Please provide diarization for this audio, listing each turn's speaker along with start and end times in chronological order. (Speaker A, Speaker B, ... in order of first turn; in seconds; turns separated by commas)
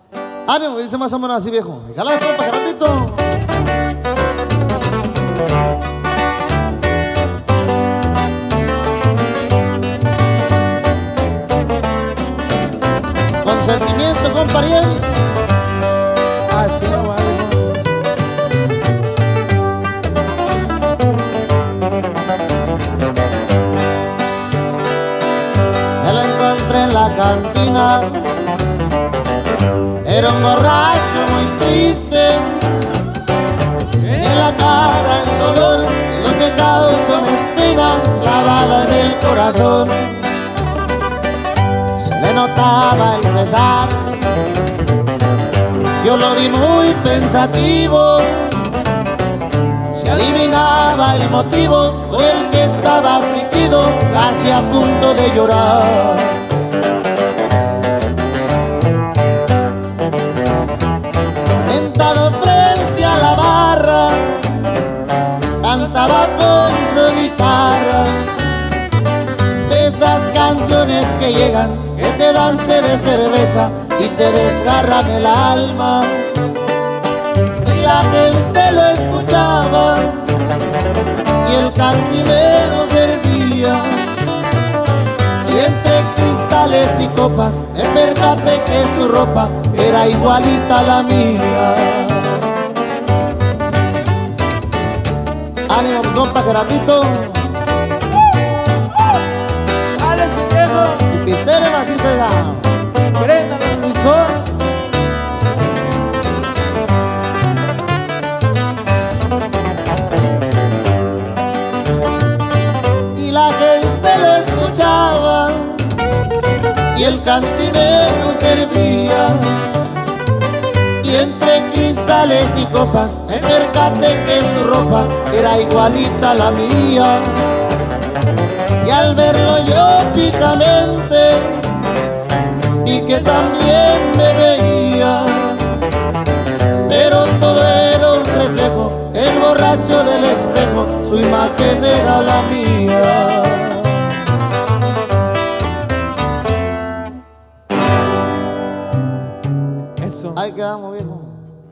Speaker A: 0.5-3.3, Speaker A: 13.4-15.1, Speaker B: 16.5-17.9, Speaker A: 26.0-28.3, Speaker A: 30.0-32.7, Speaker A: 34.0-40.3, Speaker A: 42.0-44.2, Speaker A: 46.0-48.7, Speaker A: 49.9-56.5, Speaker A: 61.5-64.4, Speaker A: 65.6-68.3, Speaker A: 69.6-76.4, Speaker A: 77.6-80.3, Speaker A: 81.4-84.2, Speaker A: 85.4-92.5, Speaker A: 95.7-97.5, Speaker B: 100.0-101.0, Speaker A: 101.0-102.7, Speaker B: 103.2-104.6, Speaker A: 113.1-116.0, Speaker A: 116.9-119.7, Speaker A: 121.0-127.5, Speaker A: 128.8-131.7, Speaker A: 132.8-135.8, Speaker A: 136.8-144.2, Speaker B: 150.0-150.4, Speaker A: 150.3-151.4